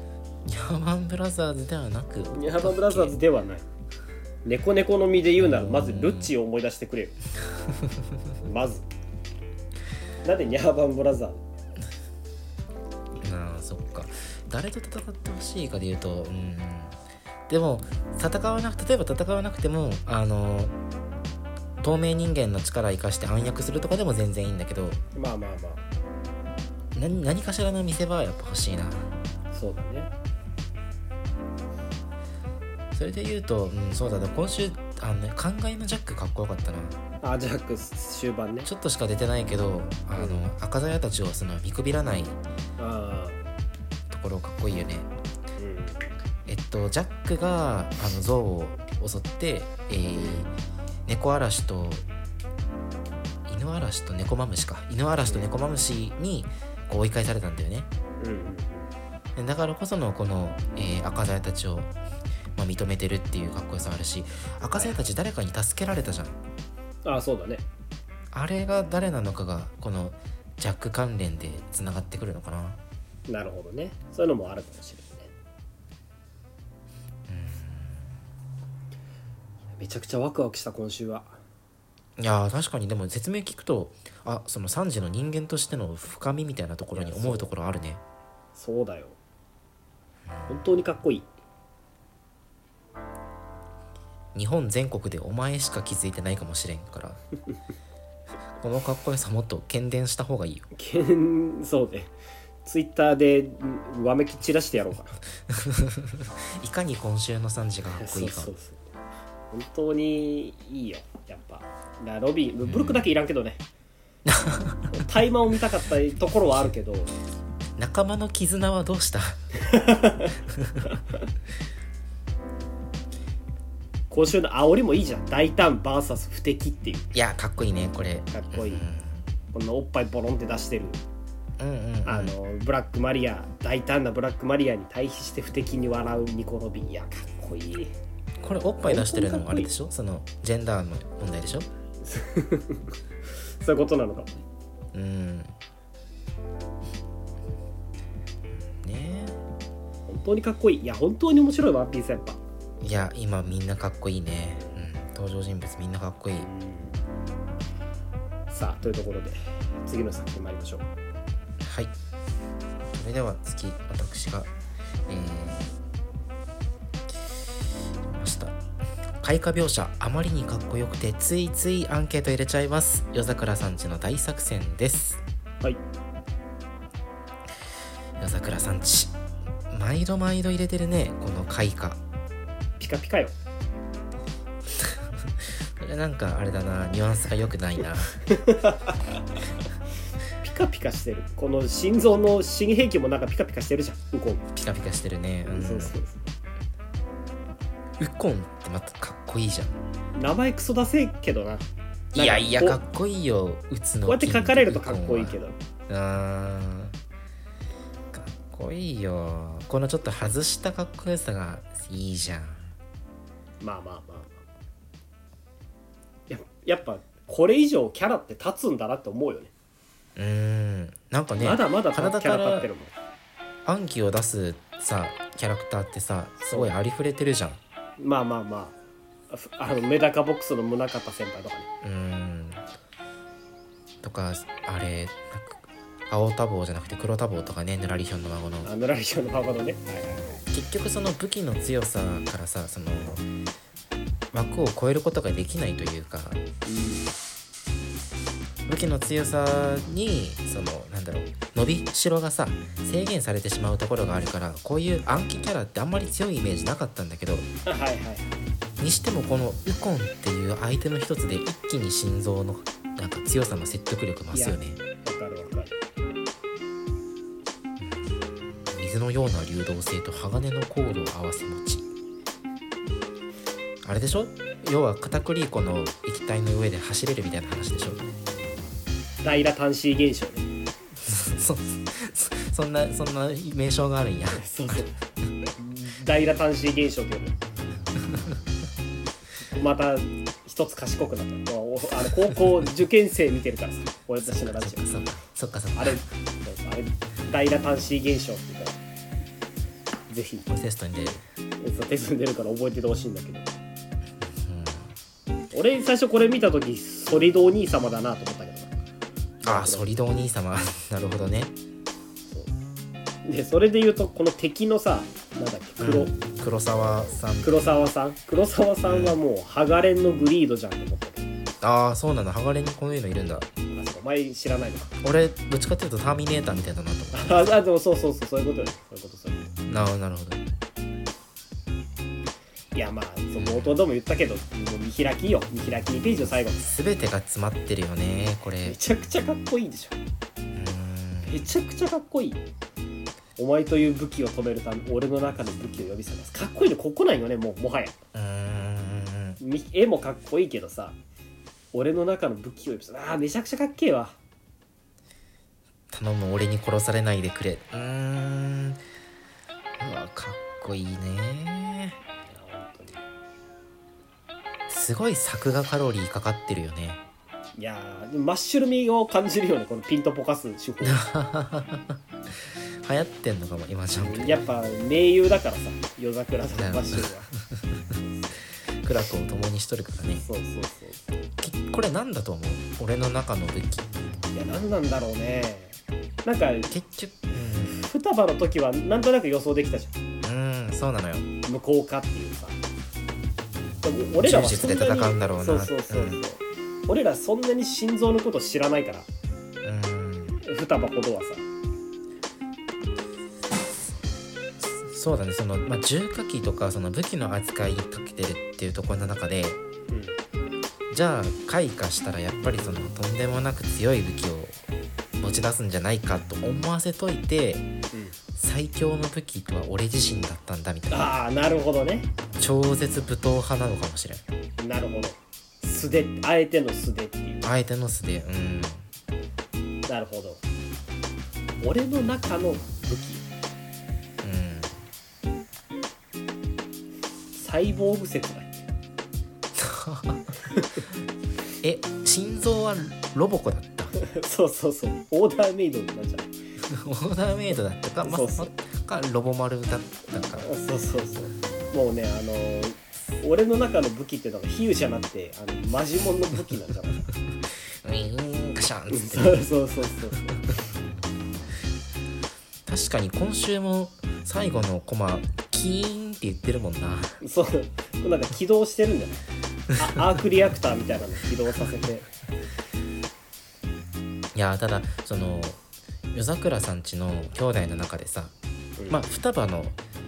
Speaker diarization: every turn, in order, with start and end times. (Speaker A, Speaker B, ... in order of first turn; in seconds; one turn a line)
Speaker A: 0.5-3.1
Speaker B: 2.3-3.6
Speaker B: 4.4-7.1
Speaker A: 5.4-6.3
Speaker A: 7.6-8.1
Speaker B: 8.4-8.8
Speaker B: 10.2-11.4
Speaker A: 13.2-16.9
Speaker A: 17.5-20.7
Speaker A: 21.8-25.0
Speaker B: 25.1-25.8
Speaker A: 26.9-29.1
Speaker B: 29.5-30.1
Speaker A: 32.9-37.0
Speaker B: 37.2-38.7
Speaker A: 38.6-42.4
Speaker B: 40.1-40.5
Speaker B: 42.8-43.4
Speaker A: 44.1-45.1
Speaker B: 45.6-46.1
Speaker A: 46.5-50.5
Speaker B: 50.1-50.5
Speaker A: 51.1-52.0
Speaker A: 53.5-57.9
Speaker B: 58.2-58.9
Speaker A: 59.4-61.9
Speaker A: 62.5-66.4
Speaker B: 64.7-65.0
Speaker B: 67.0-67.6
Speaker A: 68.3-72.8
Speaker B: 73.3-75.3
Speaker A: 77.3-78.1
Speaker B: 79.8-81.4
Speaker A: 82.2-88.0
Speaker B: 86.9-87.5
Speaker B: 88.5-89.2
Speaker A: 90.3-90.6
Speaker B: 90.5-91.3
Speaker A: 94.3-97.2
Speaker A: 98.6-100.7
Speaker B: 100.7-102.1
Speaker B: 102.6-105.2
Speaker A: 105.5-108.5
Speaker B: 108.0-108.8
Speaker B: 109.5-113.6
Speaker A: 112.6-113.0
Speaker A: 114.2-115.0
Speaker B: 114.9-117.1
Speaker A: 117.8-119.4
Speaker B: 119.6-120.3
Speaker A: 120.5-120.9
Speaker B: 124.1-127.1
Speaker A: 127.1-129.2
Speaker B: 128.3-128.8
Speaker B: 129.5-131.0
Speaker A: 131.6-132.3
Speaker B: 132.0-137.9
Speaker A: 138.4-141.7
Speaker B: 138.8-139.7
Speaker B: 142.0-142.9
Speaker B: 143.6-144.3
Speaker A: 144.9-145.5
Speaker A: 148.7-149.4
Speaker B: 150.1-152.4
Speaker A: 152.8-156.5
Speaker B: 156.4-157.0
Speaker B: 158.5-160.9
Speaker A: 161.6-161.9
Speaker A: 162.9-164.5
Speaker A: 165.1-165.7
Speaker A: 168.0-168.6
Speaker A: 169.2-175.2
Speaker A: 178.2-179.1
Speaker A: 179.7-182.0
Speaker B: 182.8-183.3
Speaker A: 184.7-188.2
Speaker B: 188.3-189.2
Speaker B: 190.4-194.4
Speaker A: 194.5-196.0
Speaker B: 195.4-196.2
Speaker A: 198.0-199.7
Speaker B: 200.1-202.8
Speaker A: 202.1-205.4
Speaker B: 204.0-205.6
Speaker A: 205.9-206.9
Speaker A: 208.1-212.7
Speaker B: 213.6-214.4
Speaker B: 216.3-219.5
Speaker A: 220.2-222.7
Speaker B: 221.4-222.9
Speaker A: 223.6-227.6
Speaker B: 226.4-226.7
Speaker B: 228.0-228.8
Speaker B: 229.3-231.7
Speaker A: 231.8-232.6
Speaker A: 234.0-238.7
Speaker B: 238.6-240.4
Speaker A: 240.5-243.2
Speaker A: 244.3-246.4
Speaker B: 246.7-247.1
Speaker A: 248.7-257.5
Speaker B: 257.6-258.4
Speaker A: 258.8-264.8
Speaker B: 264.3-265.7
Speaker A: 267.8-271.9
Speaker A: 273.8-278.1
Speaker B: 279.2-280.5
Speaker A: 281.0-284.8
Speaker B: 284.3-285.0
Speaker B: 285.6-287.4
Speaker A: 288.0-288.4
Speaker B: 289.5-294.9
Speaker A: 294.2-296.1
Speaker B: 295.7-298.8
Speaker B: 300.1-300.5
Speaker A: 300.5-301.2
Speaker B: 301.6-303.5
Speaker A: 304.2-304.9
Speaker B: 305.5-308.7
Speaker B: 309.4-309.9
Speaker A: 309.4-311.5
Speaker B: 312.3-312.5
Speaker B: 313.2-316.1
Speaker A: 315.8-317.6
Speaker B: 317.4-321.3
Speaker A: 318.9-319.2
Speaker A: 321.6-323.5
Speaker B: 323.7-324.9
Speaker A: 325.0-327.5
Speaker B: 327.1-329.5
Speaker A: 329.6-330.4
Speaker B: 332.7-336.7
Speaker A: 333.4-333.8
Speaker A: 336.6-338.8
Speaker B: 338.6-340.0
Speaker A: 340.5-341.3
Speaker B: 341.2-342.4
Speaker B: 343.4-347.9
Speaker A: 348.1-349.4
Speaker B: 349.4-351.0
Speaker B: 351.7-354.2
Speaker A: 355.9-358.8
Speaker A: 359.8-362.0
Speaker B: 362.3-363.0
Speaker A: 364.7-367.0
Speaker B: 367.6-371.0
Speaker A: 370.8-374.4
Speaker B: 374.0-377.3
Speaker A: 376.5-377.9
Speaker A: 378.7-380.3
Speaker B: 380.2-381.2
Speaker A: 381.4-383.9
Speaker B: 384.3-386.8
Speaker A: 386.7-387.8
Speaker B: 387.6-389.9
Speaker A: 390.2-391.3
Speaker B: 391.4-392.6
Speaker B: 393.8-399.1
Speaker A: 394.2-396.2
Speaker A: 399.6-400.4
Speaker B: 400.4-401.4
Speaker A: 404.6-409.6
Speaker B: 409.9-410.1
Speaker A: 410.9-414.6
Speaker A: 415.2-417.7
Speaker A: 418.4-421.1
Speaker B: 420.9-422.1
Speaker A: 422.4-424.2
Speaker B: 424.6-427.5
Speaker A: 427.4-428.9
Speaker B: 429.9-430.4
Speaker B: 431.6-433.3
Speaker A: 434.2-434.8
Speaker B: 437.3-438.6
Speaker A: 439.6-440.5
Speaker B: 440.5-440.8
Speaker A: 441.6-443.9
Speaker B: 443.9-446.3
Speaker A: 446.6-450.5
Speaker B: 448.0-448.5
Speaker B: 450.4-457.1
Speaker A: 457.8-459.4
Speaker B: 458.9-460.4
Speaker A: 462.6-467.2
Speaker B: 467.2-469.2
Speaker B: 469.8-472.1
Speaker A: 474.3-475.6
Speaker A: 476.1-478.3
Speaker B: 478.8-479.1
Speaker A: 478.9-479.8